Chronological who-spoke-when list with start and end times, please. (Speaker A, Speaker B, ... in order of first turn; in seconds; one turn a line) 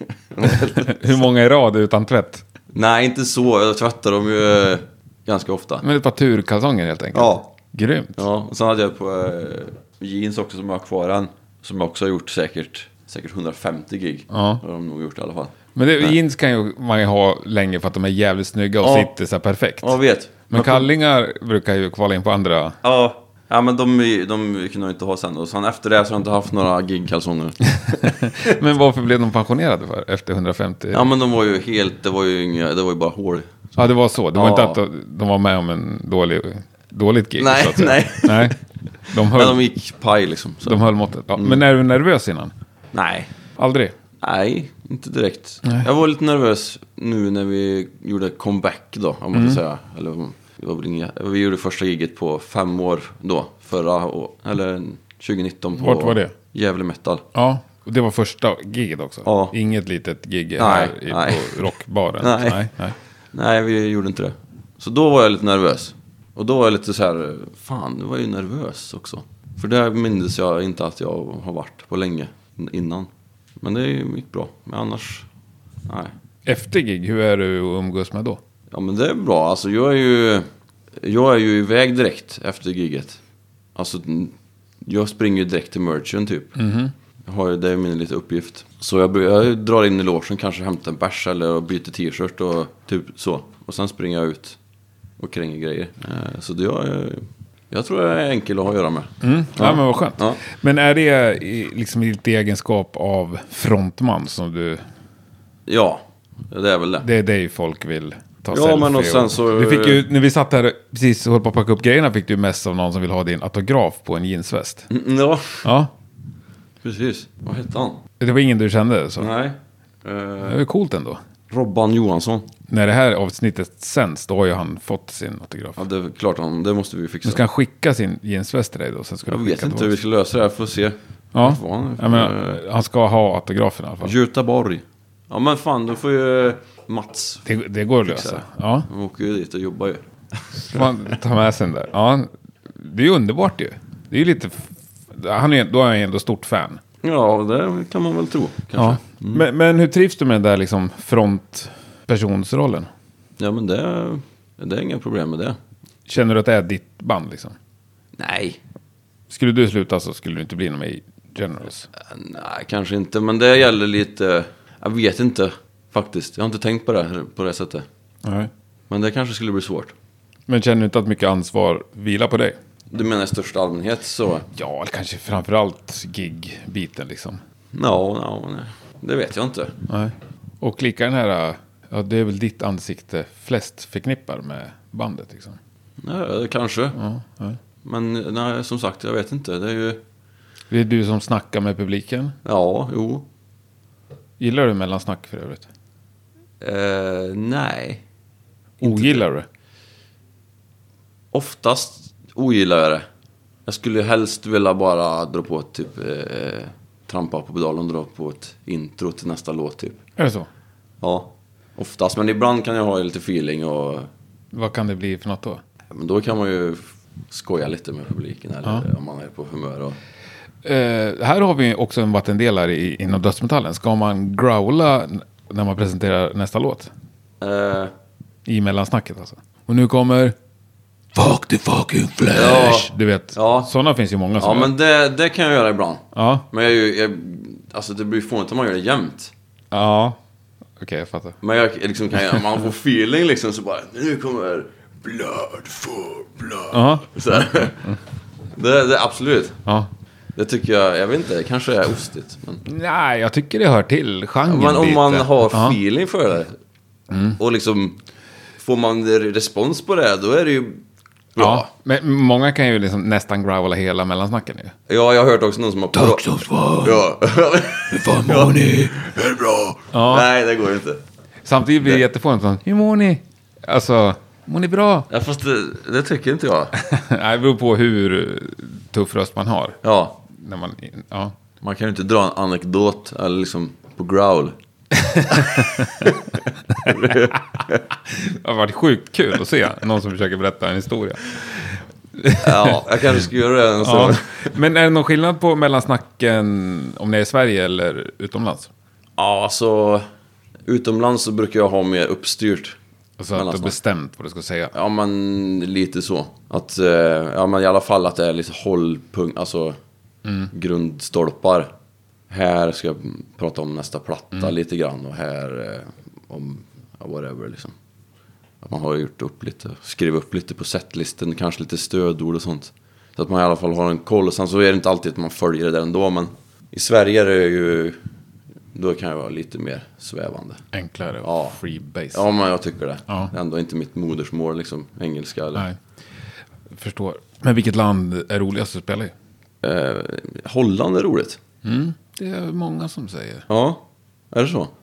Speaker A: 0.3-1.2
Speaker B: 0.8-2.4
Speaker A: 2.7-5.8
Speaker B: 5.8-8.2
Speaker A: 7.1-7.5
Speaker A: 8.2-16.2
Speaker B: 14.3-14.6
Speaker B: 15.7-20.0
Speaker A: 18.8-19.1
Speaker A: 19.8-20.9
Speaker B: 20.5-22.8
Speaker A: 22.8-27.7
Speaker B: 27.7-31.1
Speaker A: 30.9-33.5
Speaker B: 33.8-38.6
Speaker A: 34.3-34.8
Speaker A: 37.4-41.6
Speaker B: 39.1-39.6
Speaker B: 40.6-42.5
Speaker A: 42.9-43.3
Speaker B: 43.6-43.9
Speaker A: 44.2-57.2
Speaker B: 49.3-49.6
Speaker B: 55.8-56.3
Speaker B: 57.3-62.9
Speaker A: 59.2-59.5
Speaker A: 60.6-62.6
Speaker A: 63.3-73.1
Speaker A: 73.6-75.3
Speaker A: 75.9-76.1
Speaker B: 76.5-78.4
Speaker A: 78.7-83.2
Speaker A: 83.7-86.5
Speaker B: 86.5-86.9
Speaker A: 87.2-94.6
Speaker A: 95.2-100.4
Speaker B: 99.2-104.8
Speaker A: 105.7-107.1
Speaker B: 107.0-114.9
Speaker A: 108.5-110.0
Speaker A: 114.9-115.7
Speaker B: 115.6-115.9
Speaker A: 116.8-118.0
Speaker B: 118.2-119.3
Speaker A: 119.2-120.6
Speaker B: 120.4-121.2
Speaker A: 121.5-122.5
Speaker B: 122.7-125.8
Speaker A: 125.8-127.4
Speaker B: 127.2-129.9
Speaker A: 129.3-132.6
Speaker B: 131.3-134.1
Speaker A: 134.0-137.4
Speaker B: 137.4-138.9
Speaker A: 138.0-140.9
Speaker B: 140.6-146.8
Speaker A: 147.0-149.4
Speaker B: 148.8-152.9
Speaker A: 153.4-155.6
Speaker B: 156.1-157.6
Speaker A: 158.2-158.6
Speaker B: 159.3-161.9
Speaker A: 162.0-167.8
Speaker B: 168.2-168.5
Speaker A: 168.9-169.9
Speaker B: 170.5-172.6
Speaker A: 172.9-174.5
Speaker B: 174.5-177.4
Speaker A: 177.7-179.8
Speaker B: 179.9-185.6
Speaker A: 186.0-187.0
Speaker B: 186.9-187.6
Speaker A: 187.8-190.0
Speaker B: 190.7-192.3
Speaker A: 192.4-193.2
Speaker B: 194.4-195.7
Speaker A: 196.6-198.0
Speaker A: 198.8-199.2
Speaker B: 198.8-199.4
Speaker A: 201.3-203.0
Speaker A: 203.7-210.0
Speaker B: 210.2-210.5
Speaker A: 211.0-214.1
Speaker B: 214.5-215.6
Speaker A: 215.9-220.0
Speaker B: 220.6-226.9
Speaker A: 227.4-227.9
Speaker B: 228.4-230.3
Speaker B: 231.1-234.7
Speaker A: 232.3-233.7
Speaker A: 234.4-239.3
Speaker B: 236.1-236.5
Speaker B: 239.7-240.2
Speaker B: 240.8-241.4
Speaker A: 241.4-248.0
Speaker B: 246.7-247.9
Speaker A: 248.5-249.6
Speaker A: 250.3-252.6
Speaker B: 252.6-255.8
Speaker A: 254.4-256.6
Speaker B: 257.1-257.4
Speaker A: 257.3-258.0
Speaker A: 258.6-260.8
Speaker A: 261.3-261.7
Speaker B: 261.4-264.7
Speaker A: 264.9-271.0
Speaker B: 265.9-267.0
Speaker B: 267.9-268.9
Speaker B: 269.9-270.3
Speaker B: 271.4-275.1
Speaker A: 275.1-276.8
Speaker B: 276.8-281.3
Speaker A: 279.8-280.2
Speaker A: 281.6-284.5
Speaker B: 285.2-286.1
Speaker A: 285.2-287.9
Speaker B: 288.1-292.8
Speaker A: 292.4-294.6
Speaker B: 293.8-298.7
Speaker A: 299.2-300.1
Speaker A: 300.7-302.8
Speaker B: 303.2-304.7
Speaker A: 303.3-303.7
Speaker A: 304.7-309.8
Speaker A: 310.5-311.7
Speaker A: 312.3-317.7
Speaker A: 318.6-328.0
Speaker A: 328.7-330.6
Speaker B: 330.7-332.2
Speaker A: 331.2-331.6
Speaker A: 332.1-335.6
Speaker B: 336.7-339.1
Speaker A: 339.6-341.4
Speaker B: 341.6-343.4
Speaker A: 343.5-344.7